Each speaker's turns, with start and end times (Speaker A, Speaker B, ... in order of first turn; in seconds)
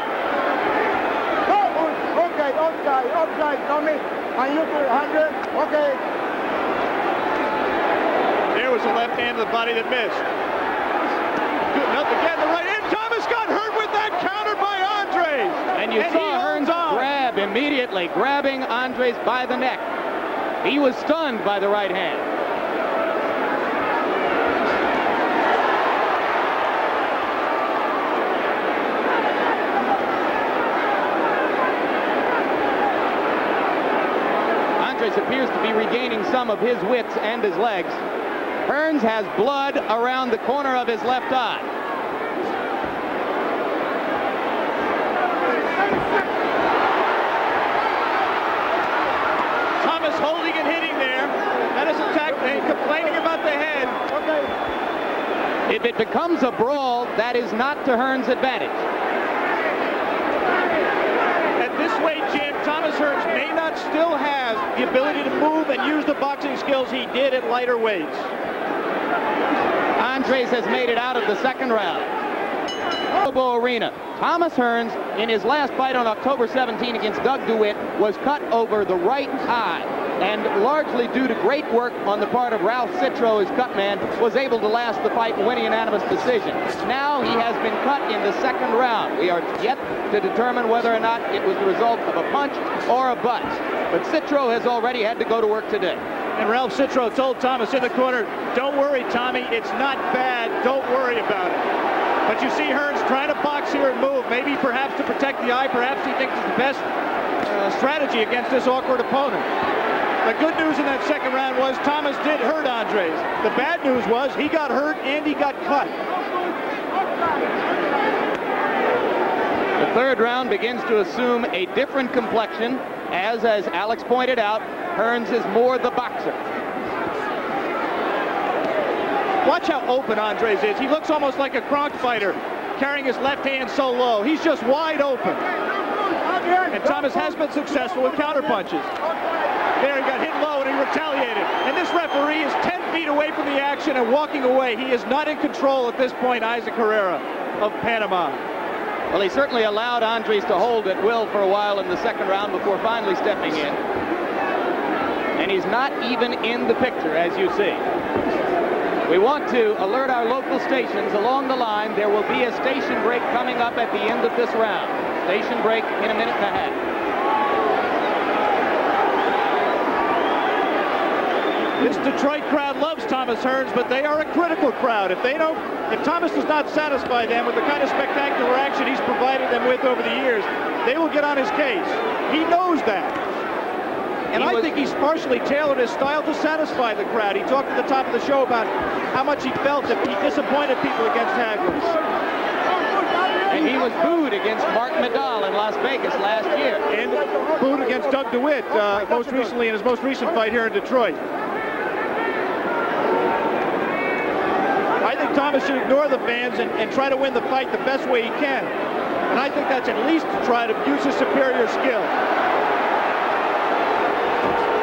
Speaker A: 1.4-6.0, 54.1-54.5, 135.9-138.4, 139.0-139.5, 192.9-193.7, 197.2-198.0
Speaker B: 8.5-10.2, 11.7-17.1, 49.8-54.0, 61.6-68.3, 96.3-101.7, 102.2-106.9, 107.4-109.5, 110.2-116.0, 129.4-135.4, 136.7-138.9, 139.8-148.4, 171.8-183.2, 184.3-192.0, 196.9-201.2, 205.0-208.7, 209.3-212.1
Speaker C: 15.7-19.9, 20.6-22.2, 34.8-38.0, 38.6-41.7, 55.7-58.8, 70.0-72.1, 73.2-96.0, 119.8-126.4, 149.1-153.8, 155.4-157.8, 159.1-166.8, 184.3-184.8, 193.5-196.8